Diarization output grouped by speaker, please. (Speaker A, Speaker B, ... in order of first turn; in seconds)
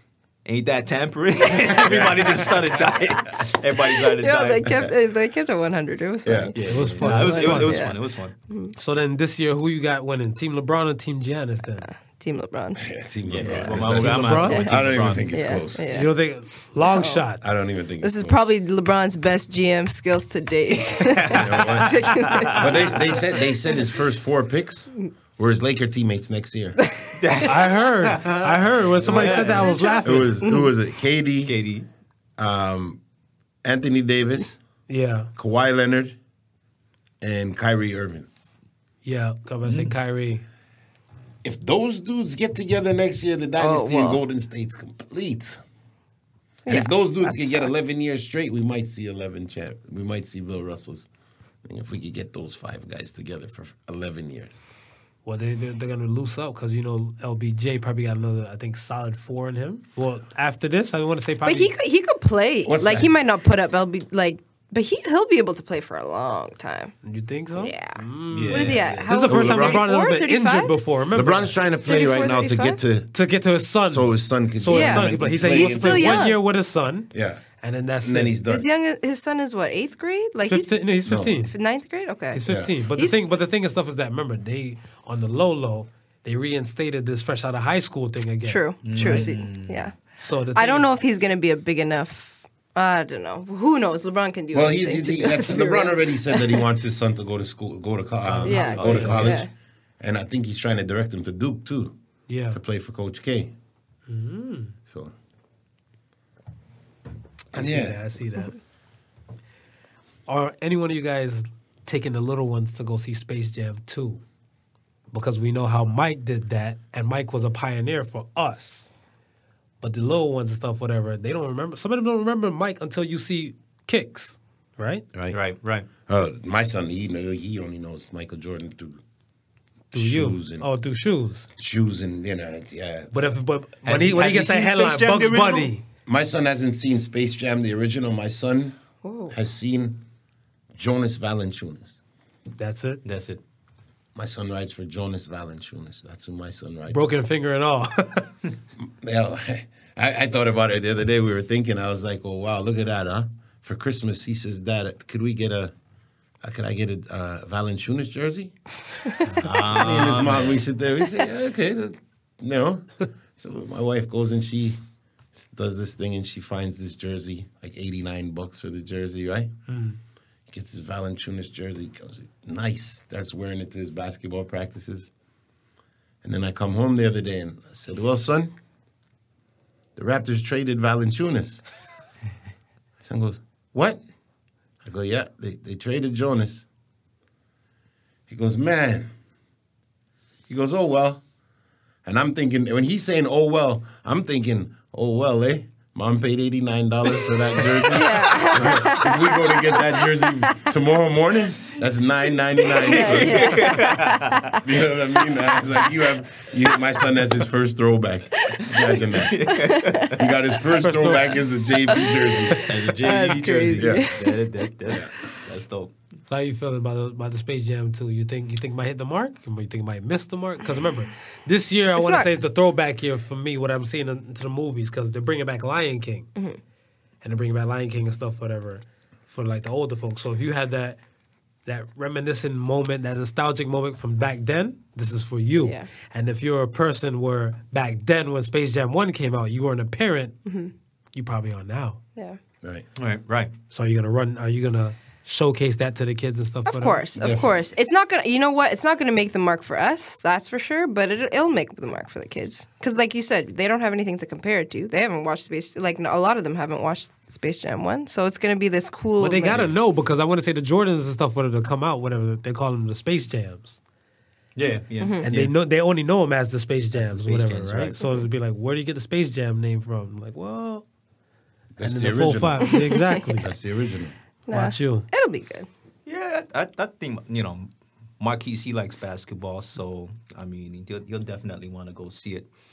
Speaker A: 0.5-4.7, 6.5-8.3, 13.3-15.5, 21.0-22.9, 27.2-29.9, 31.4-31.9, 39.6-39.9, 68.3-69.1, 88.8-89.9, 125.3-125.9, 133.8-135.7, 143.0-143.4, 159.3-160.6, 202.8-204.5, 209.1-210.3, 212.6-215.9, 243.0-243.5, 264.6-265.5, 266.9-268.0, 276.1-277.7, 278.2-282.5
Speaker B: 1.7-3.0, 6.2-6.5, 12.8-16.1, 17.4-18.4, 21.3-26.8, 30.0-31.5, 32.4-33.0, 33.6-34.6, 35.4-36.1, 37.2-38.3, 41.4-45.6, 46.6-51.1, 51.6-54.6, 62.6-63.1, 69.1-69.9, 71.1-73.1, 73.9-76.3, 77.1-77.4, 78.0-78.7, 81.0-81.4, 82.5-82.7, 94.5-101.9, 102.5-103.5, 104.9-105.1, 107.5-108.0, 126.0-129.0, 129.9-130.7, 131.6-133.4, 136.1-138.8, 139.3-140.0, 140.7-141.9, 144.1-147.1, 148.8-155.7, 156.4-158.5, 159.4-164.8, 165.3-169.6, 170.5-175.1, 176.2-178.5, 179.9-181.6, 183.0-184.0, 184.8-186.7, 188.3-189.1, 190.5-191.2, 192.0-203.9, 204.5-209.5, 210.1-212.7, 213.7-214.1, 214.9-215.1, 247.2-247.6, 271.8-274.1
Speaker C: 3.8-8.0, 11.9-12.8, 15.3-16.1, 16.8-17.2, 18.0-23.4, 29.1-30.7, 43.6-44.2, 46.6-47.7, 61.4-66.9, 67.5-70.8, 71.8-72.8, 74.7-76.4, 78.4-83.2, 88.4-89.9, 90.5-96.6, 98.4-99.5, 139.0-139.3, 197.9-200.6, 202.8-204.6, 205.3-205.8, 208.5-210.1, 211.9-214.6, 221.9-222.3, 235.6-235.9, 240.4-240.7, 246.7-259.7, 265.0-265.3, 268.0-268.2, 272.7-273.2, 274.5-275.7
Speaker D: 6.7-7.9, 8.8-11.9, 13.8-14.7, 15.9-17.4, 27.4-30.4, 34.9-35.3, 39.0-40.4, 55.2-61.7, 67.0-71.5, 73.1-78.3, 80.5-81.5, 82.3-89.3, 90.2-90.9, 98.2-99.4, 102.3-102.6, 104.1-104.8, 107.5-108.5, 110.3-114.2, 115.1-118.9, 119.8-125.0, 129.9-131.5, 133.1-135.8, 142.6-143.0, 146.9-148.3, 169.7-170.0, 210.8-211.4, 216.3-226.3, 227.2-231.0, 231.7-240.4, 241.1-242.0, 243.7-247.0, 259.2-263.8, 265.2-270.8, 271.8-273.5, 274.5-275.1